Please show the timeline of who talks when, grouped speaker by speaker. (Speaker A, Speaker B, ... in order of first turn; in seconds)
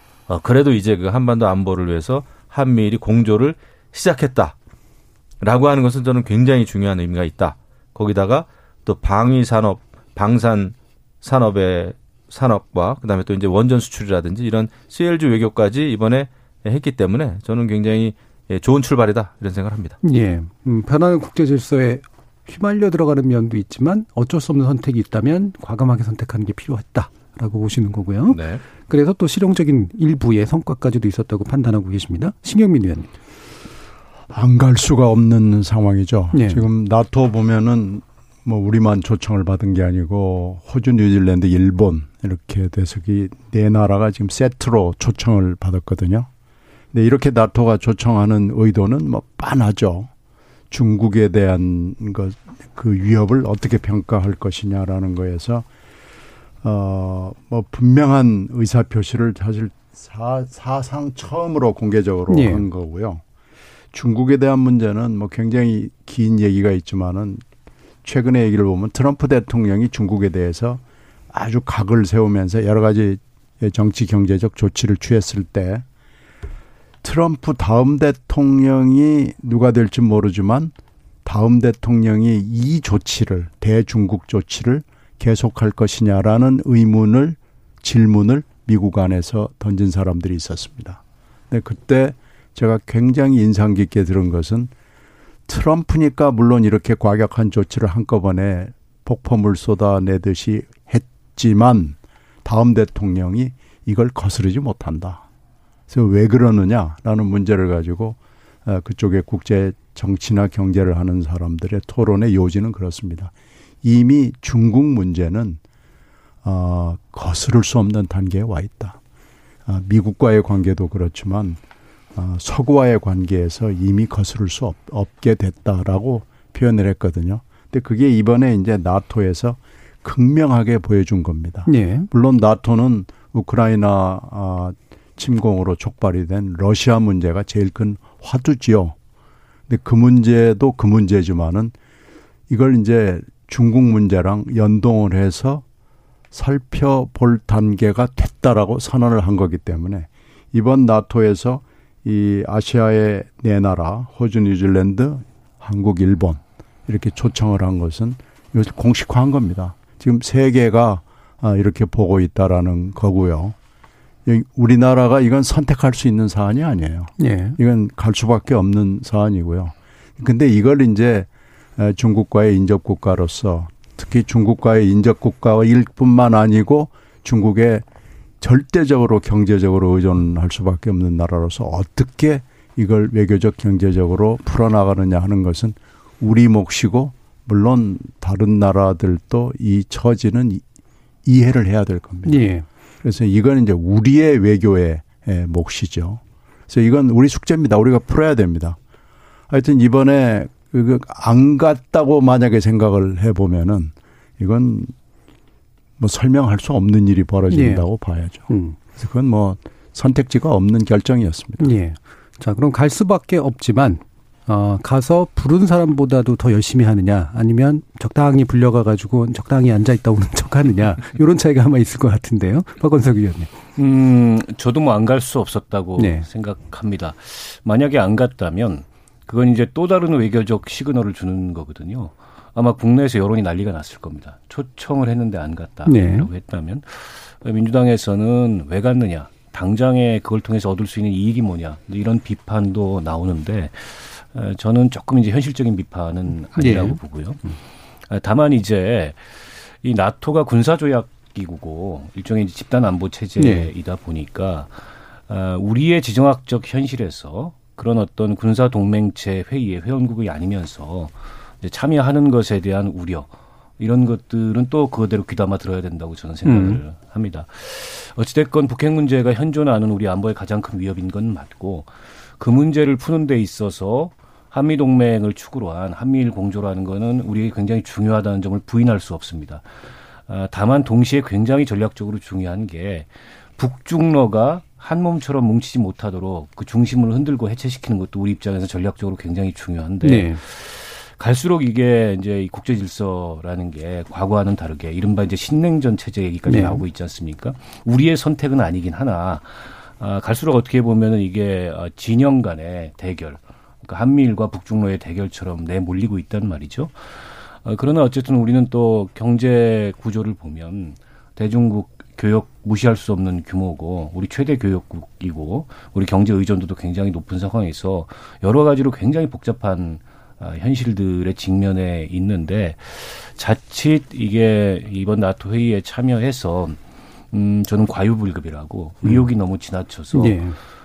Speaker A: 0.3-4.5, 5.4-20.0, 28.3-28.6
Speaker B: 20.0-33.1, 36.3-36.6, 62.3-62.6, 131.7-132.1, 167.2-167.6, 192.2-192.7, 207.5-207.9, 208.5-208.8, 211.6-223.5, 226.0-226.2, 235.8-236.3, 246.6-247.0, 253.4-253.7, 266.4-266.8, 290.0-290.4, 296.5-296.8, 330.1-330.6
Speaker C: 34.3-46.3, 46.9-50.1, 50.7-55.7, 56.6-63.2, 63.9-67.4, 68.0-75.8, 77.0-80.7, 81.2-94.7, 95.5-105.2, 105.9-115.6, 116.4-119.0, 119.7-121.6, 122.2-138.9, 139.7-141.7, 142.5-145.6, 146.3-163.6, 164.3-177.8, 178.4-190.6, 191.2-192.5, 193.0-198.8, 199.5-204.9, 206.0-211.7
Speaker D: 223.8-247.4, 248.1-279.7, 280.3-326.8, 327.3-330.4